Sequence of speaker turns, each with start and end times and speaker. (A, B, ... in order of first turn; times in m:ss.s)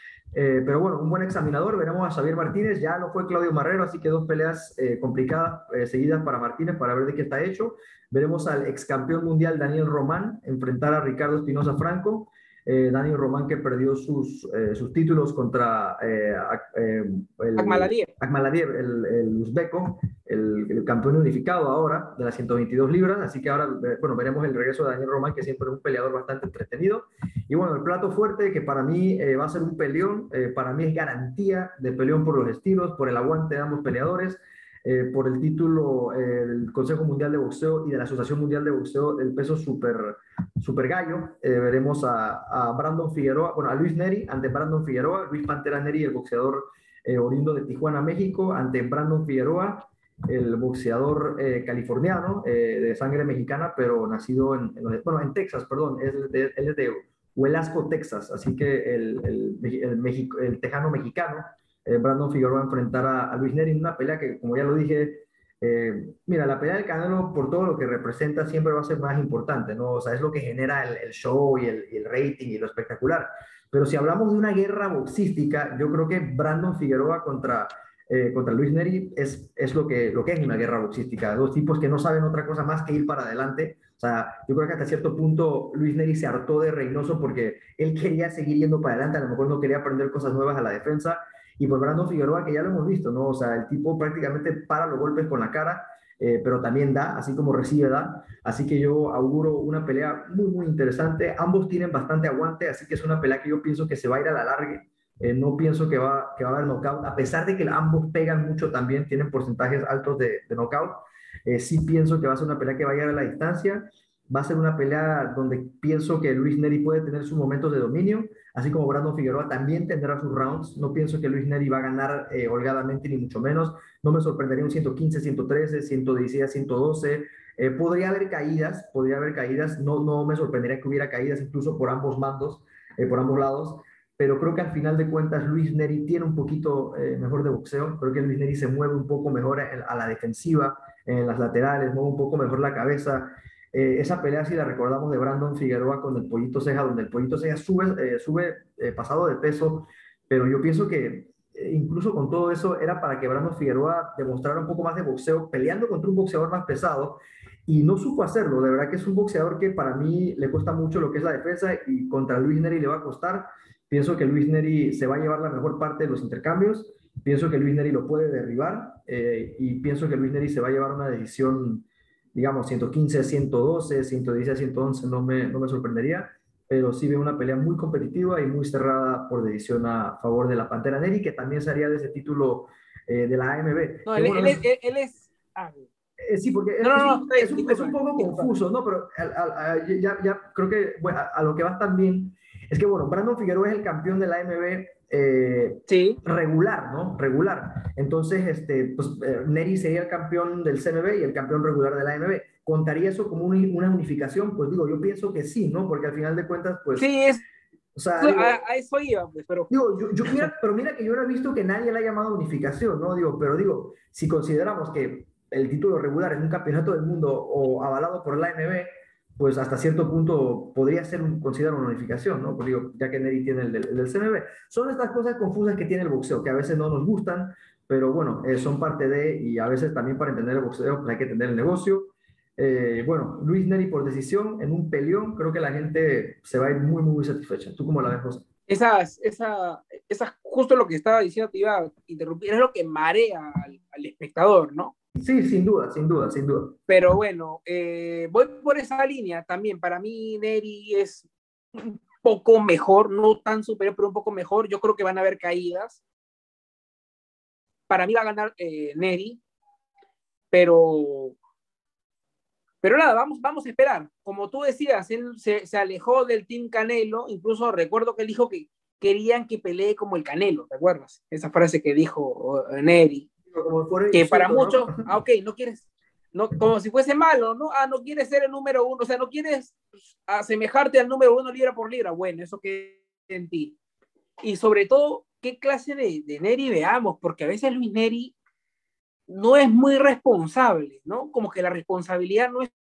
0:00.3-3:04.6 A
0:17.6-0:18.1 B
3:04.1-3:05.9 B
3:06.2-3:27.1 A
3:06.8-3:08.5 B
3:15.9-3:16.2 B
3:27.0-3:27.4 B
3:28.0-3:28.6 A
3:28.2-3:29.7 B
3:29.7-3:58.5 A
3:58.7-4:04.9 B
4:05.2-4:06.8 A
4:06.9-4:16.0 B
4:17.9-4:19.4 B
4:20.5-4:21.4 B
4:22.8-4:33.3 B
4:33.5-4:35.0 A
4:34.1-4:43.8 B
4:44.4-4:48.3 B
4:49.3-4:52.7 B